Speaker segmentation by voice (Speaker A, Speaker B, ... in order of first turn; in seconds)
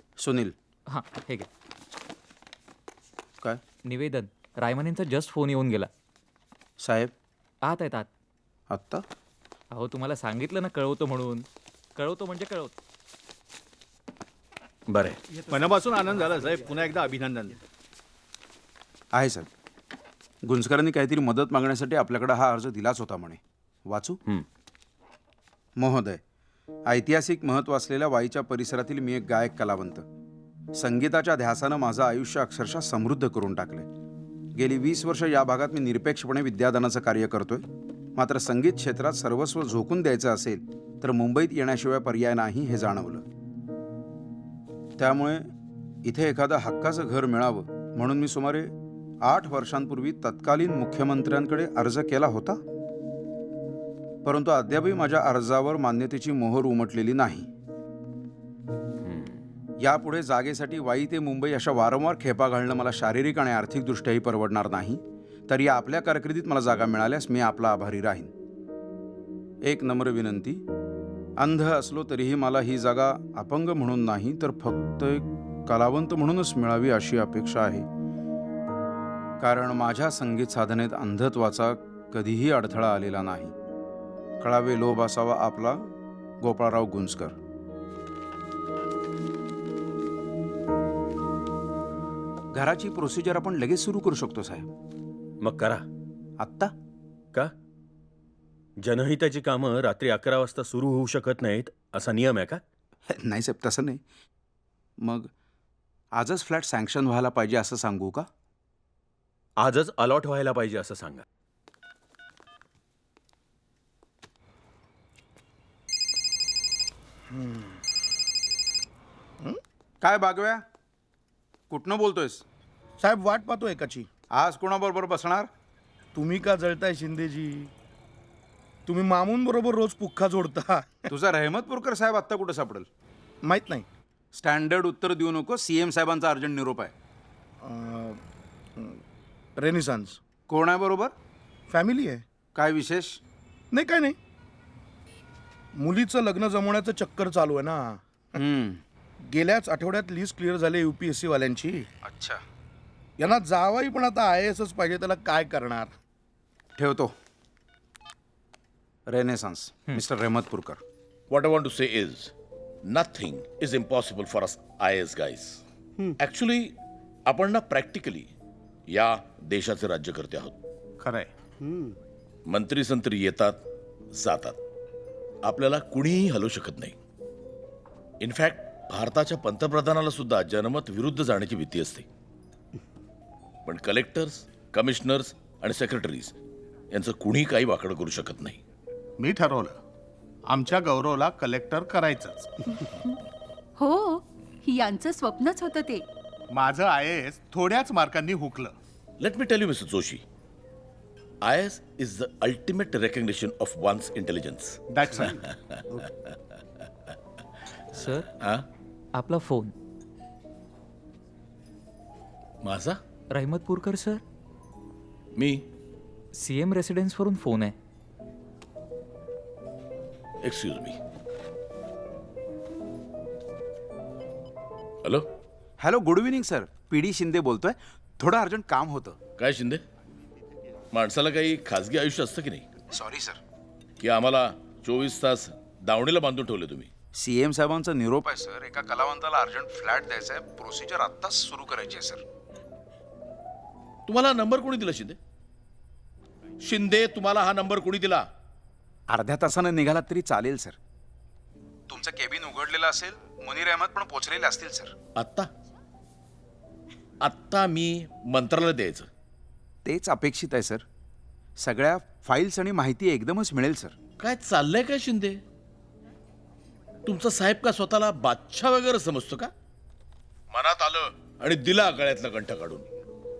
Speaker A: 0.2-0.5, 6.8-7.1, 8.7-9.0, 19.1-19.5, 20.4-24.2, 25.8-26.2, 26.9-30.0, 30.8-33.9, 34.5-37.6, 38.1-43.2, 45.0-45.4, 46.0-48.7, 49.2-52.6, 54.2-57.5, 59.8-68.3, 69.7-70.6, 71.4-77.8, 79.4-83.5, 84.4-85.8, 86.4-87.3, 92.5-94.7, 96.4-96.7, 103.1-104.0, 105.0-105.3, 106.1-108.2, 120.0-120.6, 121.7-122.4, 124.3-125.5, 131.1-132.9, 134.3-136.9, 140.5-141.1, 142.5-143.2, 148.4-148.8, 152.0-152.4, 156.8-157.1, 159.1-160.8, 225.8-229.2, 232.9-233.4, 237.2-242.2, 249.1-250.8, 251.9-254.9, 259.8-260.8, 261.6-263.9
Speaker B: 0.9-1.5, 3.9-5.9, 7.6-8.1, 9.7-12.7, 207.9-208.3, 209.1-209.7, 213.3-214.2, 216.3-217.7
Speaker C: 14.9-15.2, 59.0-59.4, 95.4-95.8, 98.8-102.6, 109.6-111.2
Speaker D: 15.5-17.5
Speaker E: 117.3-117.8, 123.0-124.1, 126.1-127.7, 128.8-131.1, 133.4-133.9, 137.6-138.2, 139.6-140.2, 141.7-142.2, 143.7-144.2, 145.7-148.4, 149.3-151.9, 153.2-155.9
Speaker F: 161.3-162.3, 162.9-165.6, 166.2-166.7, 167.3-168.3, 168.9-170.6, 172.5-173.6, 174.1-174.6, 175.4-176.9, 178.2-182.1, 183.7-186.3, 186.9-188.6, 199.2-200.2, 201.4-206.3, 208.4-208.7, 212.6-213.0, 215.3-215.6, 220.4-221.0, 229.4-229.8, 230.9-232.7, 234.0-236.9, 244.1-245.2, 246.6-248.2, 255.1-255.5, 257.2-259.1, 264.2-265.4, 267.1-269.5, 270.5-272.9
Speaker G: 171.0-171.3, 189.2-189.8, 190.5-192.5, 196.5-198.7, 204.9-205.4
Speaker H: 193.8-196.0